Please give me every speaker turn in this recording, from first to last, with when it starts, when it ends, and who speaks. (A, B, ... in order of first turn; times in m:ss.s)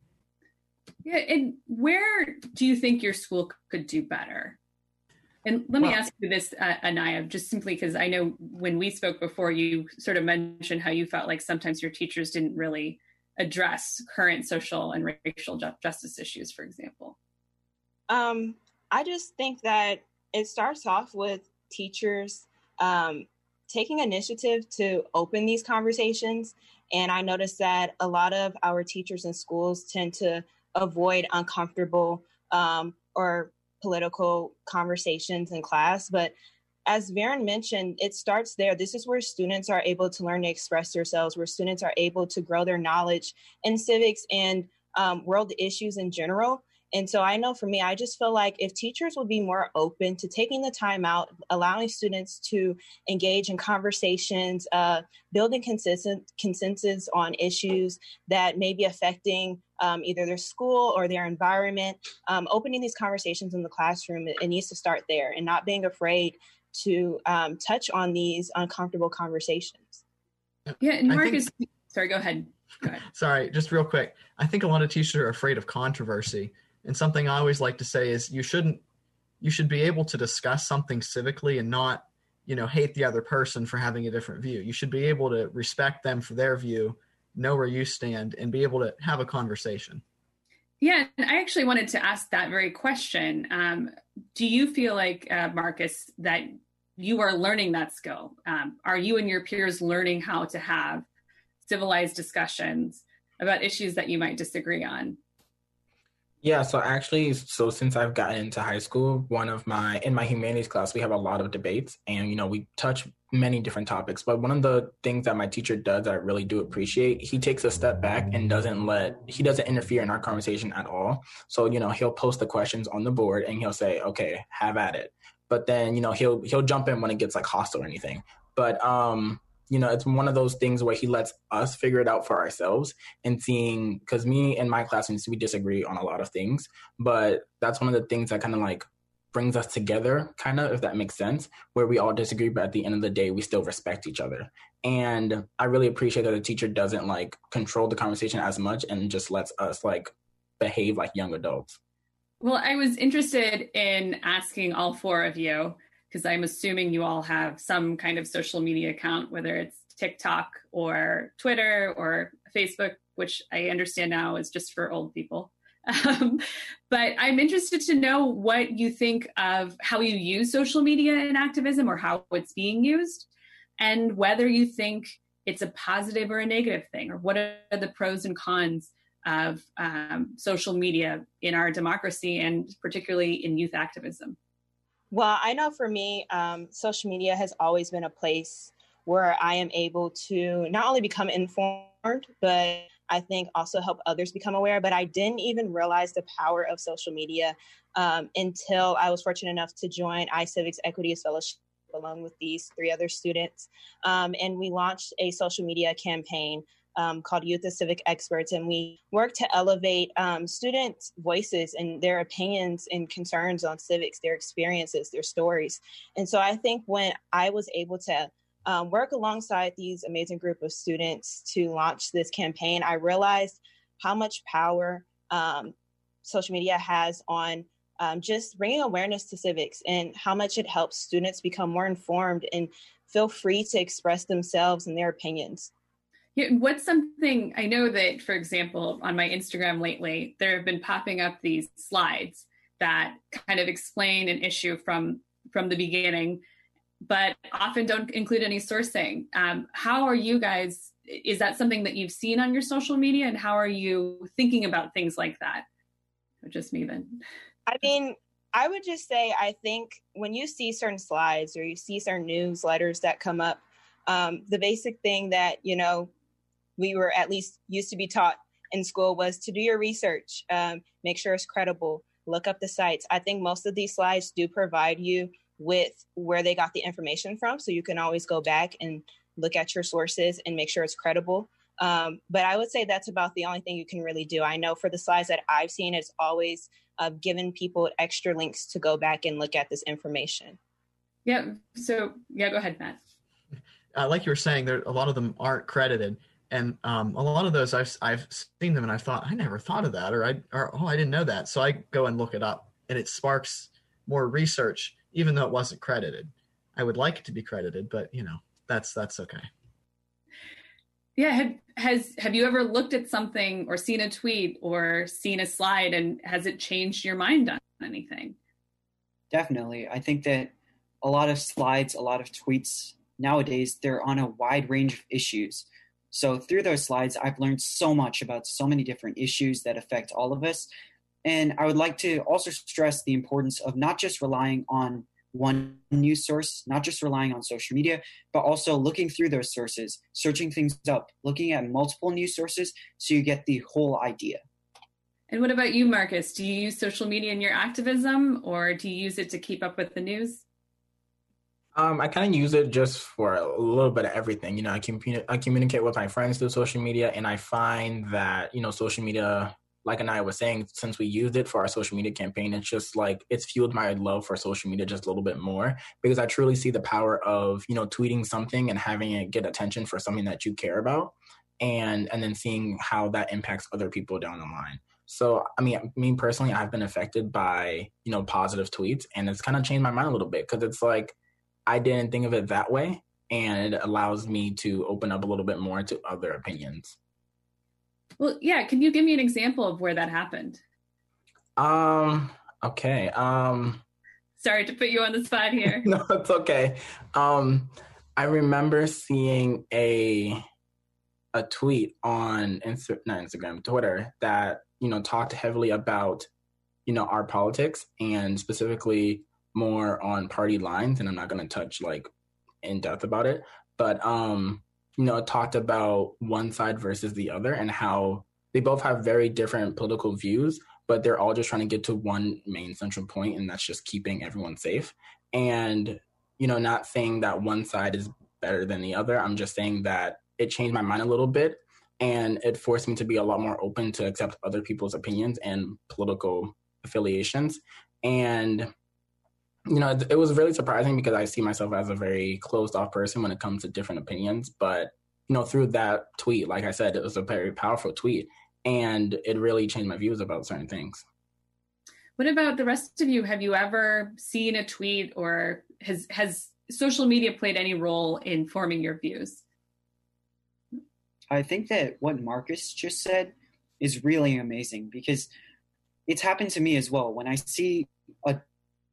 0:01.0-0:04.6 A
0:05.4-0:17.2 A
0:18.1-0:36.3 B
0:36.8-1:10.0 B
1:10.7-1:11.4 C
1:10.8-1:13.0 A
1:13.1-1:18.8 C
1:19.4-1:30.0 C
1:30.8-1:41.0 A
1:41.6-1:45.2 A
1:46.4-2:31.8 D
2:32.4-2:53.3 A
2:53.8-3:04.4 A
3:05.1-3:55.7 B
3:56.4-4:06.4 A
4:07.0-4:15.6 A
4:16.4-4:17.2 A
4:17.6-4:26.1 B
4:26.8-4:50.6 B
4:51.2-4:53.0 A
4:53.9-5:09.5 C
5:11.2-5:18.4 A
5:19.3-5:30.7 E
5:31.2-5:44.4 E
5:45.3-5:50.4 A
5:51.7-6:21.2 D
6:21.7-6:27.0 D
6:28.2-6:30.6 A
6:31.6-6:33.8 D
6:34.4-6:35.8 A
6:35.6-6:40.4 D
6:41.3-6:46.3 D
6:46.8-6:52.1 D
6:52.6-7:18.7 D
7:19.7-7:31.0 D
7:32.2-7:39.4 A
7:41.3-7:45.3 E
7:46.1-7:48.4 E